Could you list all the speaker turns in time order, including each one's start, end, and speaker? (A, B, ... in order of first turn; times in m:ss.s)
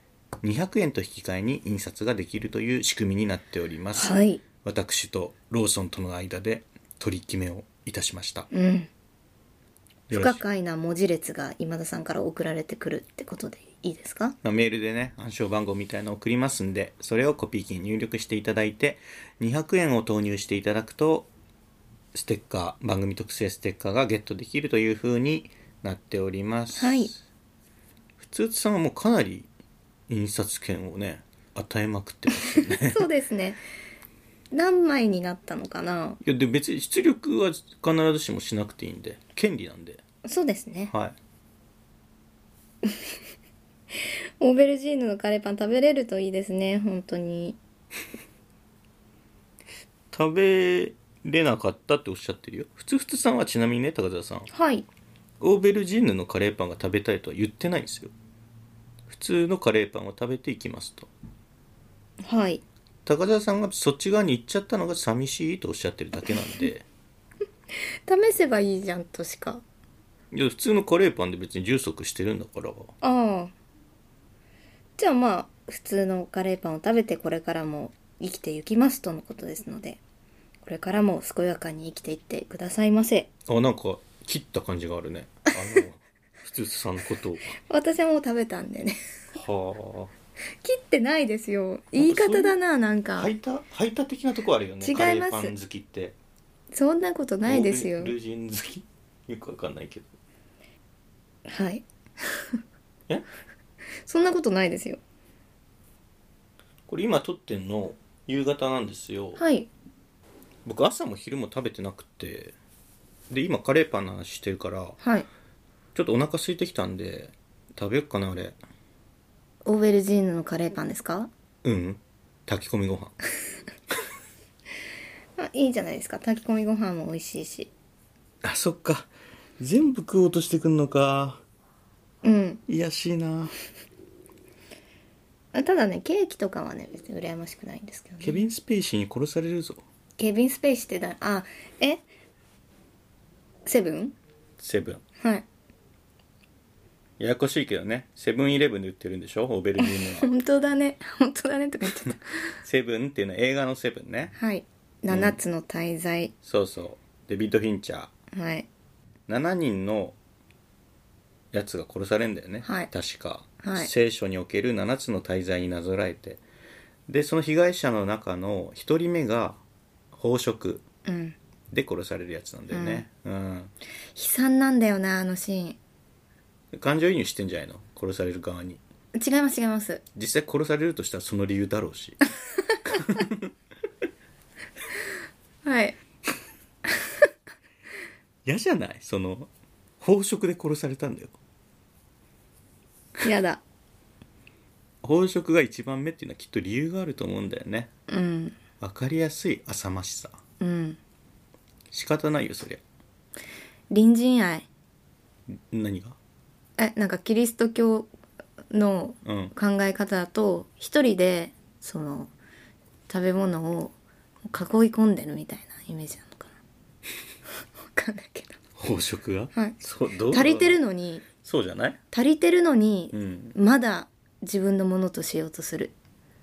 0:00.4-0:08.5 A
0:04.0-0:04.4 B
0:08.5-0:08.9 B
0:10.1-0:10.4 A
0:10.1-0:14.4 B
0:14.4-0:21.3 A
0:22.1-0:27.2 A
0:26.8-0:27.1 B
0:28.2-0:29.5 A
0:30.1-0:33.1 A
0:32.5-0:33.6 B
0:34.5-0:36.2 B
0:36.2-0:40.0 A
0:40.2-0:40.9 B
0:40.9-0:41.2 A
0:44.4-0:47.6 B
0:50.1-0:54.5 A
0:54.5-0:54.8 B
0:55.4-0:58.1 A
0:59.1-1:01.1 A
1:02.2-1:02.6 B
1:03.0-1:06.8 A
1:08.1-1:09.6 B
1:10.3-1:12.9 A
1:13.0-1:13.5 B
1:15.0-1:20.0 B
1:20.6-1:23.3 B
1:23.5-1:27.5 A
1:27.7-1:29.0 B
1:29.3-1:30.1 A
1:30.6-1:33.3 B
1:32.0-1:32.5 A
1:33.2-1:36.2 A
1:34.8-1:35.5 B
1:36.7-1:38.1 B
1:37.4-1:40.1 A
1:41.5-1:42.6 B
1:44.0-1:45.0 B
1:46.9-1:49.4 A
1:49.4-1:49.7 B
1:50.6-1:52.5 A
1:53.3-1:55.0 A
1:55.0-1:55.3 B
1:55.9-1:58.6 A
1:59.6-2:01.3 B
2:01.6-2:03.1 A
2:05.4-2:07.7 B
2:08.4-2:11.4 A
2:12.2-2:12.6 B
2:12.7-2:13.5 A
2:15.5-2:18.4 B
2:18.2-2:19.8 A
2:20.2-2:22.0 B
2:23.6-2:24.1 B
2:24.6-2:25.0 A
2:27.2-2:30.3 A
2:29.8-2:32.4 B
2:32.6-2:34.3 A
2:34.4-2:36.3 B
2:35.1-2:35.4 A
2:36.4-2:38.1 A
2:38.3-2:38.7 B
2:39.3-2:40.2 A
2:41.5-2:46.4 A
2:42.6-2:42.9 B
2:43.6-2:43.9 B
2:47.1-2:49.6 A
2:50.1-2:50.8 A
2:51.0-2:51.4 B
2:51.7-2:53.7 A
2:52.7-2:53.0 B
2:54.2-2:55.8 B
2:56.7-2:58.8 A
2:59.1-3:00.0 B
3:00.1-3:02.2 A
3:02.8-3:03.5 A
3:05.6-3:06.0 B
3:08.4-3:11.4 A
3:13.2-3:13.6 B
3:15.0-3:17.9 A
3:18.1-3:18.6 B
3:18.8-3:20.4 A
3:20.6-3:21.0 B
3:21.9-3:22.8 A
3:23.9-3:24.7 B
3:25.5-3:26.2 A
3:26.8-3:28.1 B
3:28.7-3:32.3 B
3:29.2-3:29.5 A
3:33.1-3:33.9 B
3:34.5-3:36.5 B
3:37.9-3:38.6 B
3:38.8-3:42.0 A
3:40.3-3:41.2 B
3:42.1-3:45.9 B
3:43.1-3:43.5 A